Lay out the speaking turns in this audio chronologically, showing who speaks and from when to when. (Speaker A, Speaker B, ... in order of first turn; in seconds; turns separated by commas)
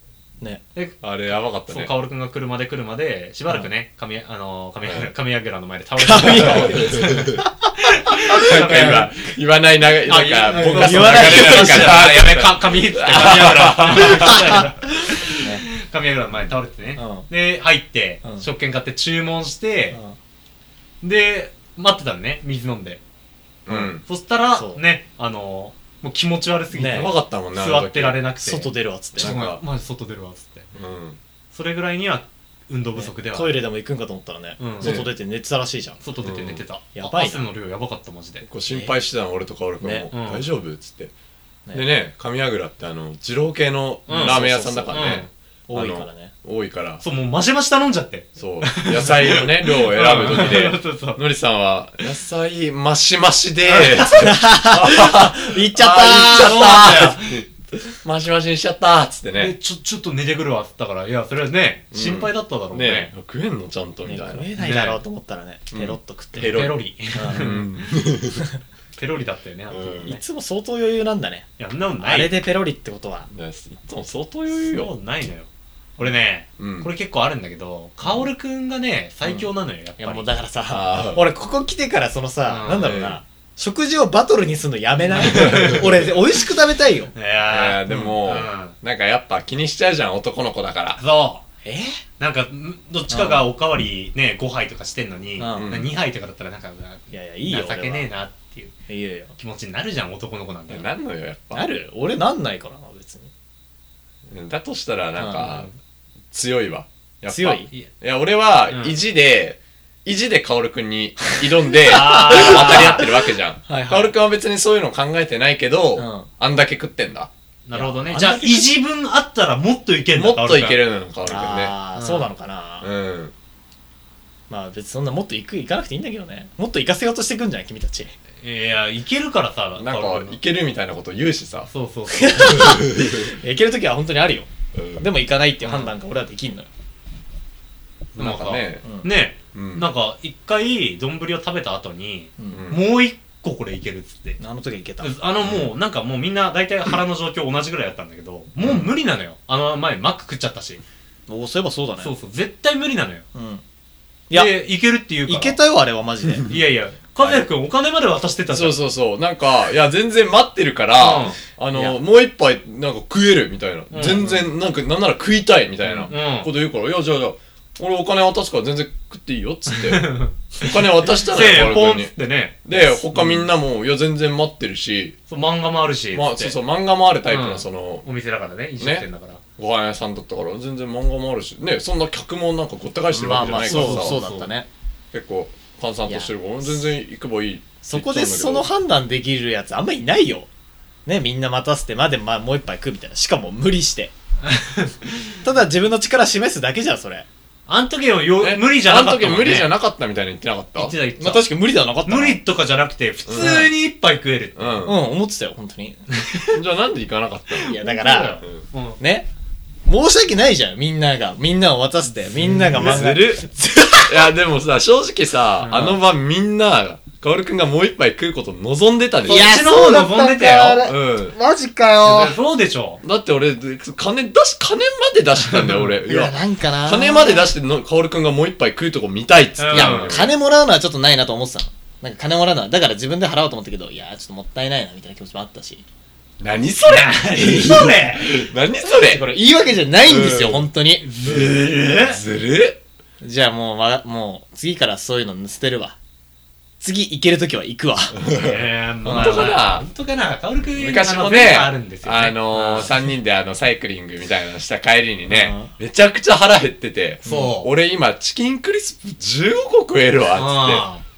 Speaker A: 1.0-1.9, Speaker B: 1.7-9.1, Speaker A: 4.8-5.1, Speaker C: 6.0-7.7, Speaker A: 6.2-7.4, Speaker C: 8.3-9.1, Speaker A: 8.3-14.4, Speaker B: 10.1-20.0, Speaker C: 10.4-12.2, Speaker C: 14.2-14.6, Speaker C: 15.4-15.7, Speaker C: 17.0-17.3, Speaker C: 19.9-20.2, Speaker B: 21.0-23.0, Speaker A: 23.6-24.0, Speaker B: 23.8-30.7, Speaker C: 24.5-24.8, Speaker C: 26.7-27.1, Speaker A: 26.9-28.2, Speaker C: 28.4-29.3, Speaker A: 29.2-29.6, Speaker A: 30.7-31.2, Speaker B: 31.5-33.6, Speaker C: 32.9-36.0, Speaker B: 34.6-35.1, Speaker A: 34.8-35.1, Speaker B: 36.0-38.5, Speaker A: 36.2-36.6, Speaker C: 36.9-37.5, Speaker A: 38.4-41.1, Speaker C: 38.7-38.9, Speaker C: 39.8-40.1, Speaker B: 40.1-40.4, Speaker A: 41.7-47.0, Speaker B: 44.1-44.4, Speaker C: 44.1-46.3, Speaker B: 44.9-45.3, Speaker B: 47.0-51.2, Speaker A: 48.4-57.4, Speaker C: 53.7-57.1, Speaker B: 56.0-57.4, Speaker A: 58.0-59.5, Speaker B: 59.3-63.1, Speaker A: 61.9-64.5, Speaker C: 64.0-66.6, Speaker B: 64.6-65.0, Speaker A: 65.7-68.4, Speaker B: 66.4-68.0, Speaker C: 67.1-67.5, Speaker B: 69.0-70.2, Speaker A: 69.7-70.1, Speaker C: 70.0-71.5, Speaker B: 71.6-72.3, Speaker C: 72.0-73.3, Speaker A: 73.3-74.9, Speaker B: 74.5-80.3, Speaker A: 76.6-76.9, Speaker C: 80.0-87.1, Speaker A: 80.7-81.2, Speaker B: 82.5-83.0, Speaker A: 82.7-83.2, Speaker B: 85.1-86.0, Speaker A: 85.2-85.9, Speaker B: 87.1-88.8, Speaker A: 87.5-91.0, Speaker C: 87.9-88.2, Speaker B: 91.0-91.4, Speaker C: 91.6-92.0, Speaker B: 92.2-98.7, Speaker C: 93.1-93.5, Speaker C: 95.4-95.7, Speaker A: 95.5-95.9, Speaker C: 97.1-98.1, Speaker C: 98.9-99.3, Speaker B: 99.4-100.9, Speaker A: 100.7-101.7, Speaker C: 101.5-103.3, Speaker A: 104.3-105.7, Speaker C: 105.2-105.5, Speaker B: 105.4-105.7, Speaker A: 106.3-117.3, Speaker C: 107.3-107.7, Speaker B: 108.7-109.0, Speaker B: 111.8-113.0, Speaker C: 111.9-113.1, Speaker C: 113.7-114.1, Speaker C: 116.0-116.3, Speaker B: 117.7-120.8, Speaker C: 117.7-118.7, Speaker A: 120.1-121.8, Speaker C: 121.2-122.9, Speaker B: 121.9-122.3, Speaker A: 122.8-123.3, Speaker C: 124.5-128.1, Speaker B: 128.4-130.4, Speaker A: 129.8-131.7, Speaker B: 131.7-132.8, Speaker C: 132.1-136.7, Speaker A: 132.4-133.3, Speaker A: 134.7-135.1, Speaker B: 135.6-135.9, Speaker A: 138.2-138.8, Speaker B: 138.2-144.4, Speaker A: 139.5-139.9, Speaker A: 142.5-142.8, Speaker C: 144.4-145.1, Speaker B: 145.0-150.8, Speaker A: 145.4-145.7, Speaker A: 148.6-148.9, Speaker C: 151.3-152.1, Speaker B: 152.0-153.2, Speaker C: 153.3-153.6, Speaker C: 154.3-154.6, Speaker B: 154.3-155.6, Speaker C: 155.2-156.5, Speaker A: 156.3-156.6, Speaker B: 156.5-158.8, Speaker A: 157.2-157.5, Speaker A: 158.5-172.1, Speaker B: 161.0-161.4, Speaker C: 161.7-162.0, Speaker B: 163.9-164.4, Speaker C: 164.2-164.4, Speaker B: 165.8-166.5, Speaker B: 169.7-172.6, Speaker A: 172.6-175.2, Speaker C: 173.1-173.4, Speaker B: 175.3-176.5, Speaker A: 176.1-178.1, Speaker B: 177.3-179.4, Speaker A: 178.8-184.2, Speaker C: 183.1-184.7, Speaker B: 183.6-184.5, Speaker A: 185.1-188.7, Speaker C: 186.1-186.3, Speaker C: 187.8-190.5, Speaker C: 191.1-194.1, Speaker B: 194.4-195.3, Speaker C: 195.4-197.3, Speaker B: 197.7-199.7, Speaker A: 198.4-201.0, Speaker B: 200.8-201.5, Speaker C: 201.2-202.4, Speaker B: 202.0-204.8, Speaker A: 203.3-203.7, Speaker A: 204.6-205.0, Speaker C: 204.8-206.1, Speaker B: 206.2-206.5, Speaker A: 206.5-207.8, Speaker C: 207.6-208.4, Speaker B: 207.7-209.0, Speaker C: 209.0-209.3, Speaker C: 209.8-214.3, Speaker B: 212.4-212.7, Speaker A: 212.5-213.4, Speaker A: 214.0-219.5, Speaker B: 215.6-216.0, Speaker C: 219.2-222.4, Speaker B: 219.2-220.9, Speaker A: 220.8-221.4, Speaker B: 222.0-223.0, Speaker A: 223.0-230.3, Speaker B: 225.5-225.8, Speaker C: 226.0-227.5, Speaker B: 229.6-230.2, Speaker C: 229.7-235.8, Speaker A: 236.4-239.2, Speaker B: 236.8-238.5, Speaker C: 238.8-241.1, Speaker A: 240.0-240.7, Speaker B: 241.0-242.2, Speaker A: 241.2-242.8, Speaker C: 243.2-246.0, Speaker C: 246.8-248.2, Speaker A: 248.2-249.8, Speaker B: 248.3-252.9, Speaker C: 249.1-249.5, Speaker A: 250.8-260.8, Speaker C: 255.3-255.7, Speaker C: 257.2-257.6, Speaker B: 257.2-257.7, Speaker B: 260.4-261.0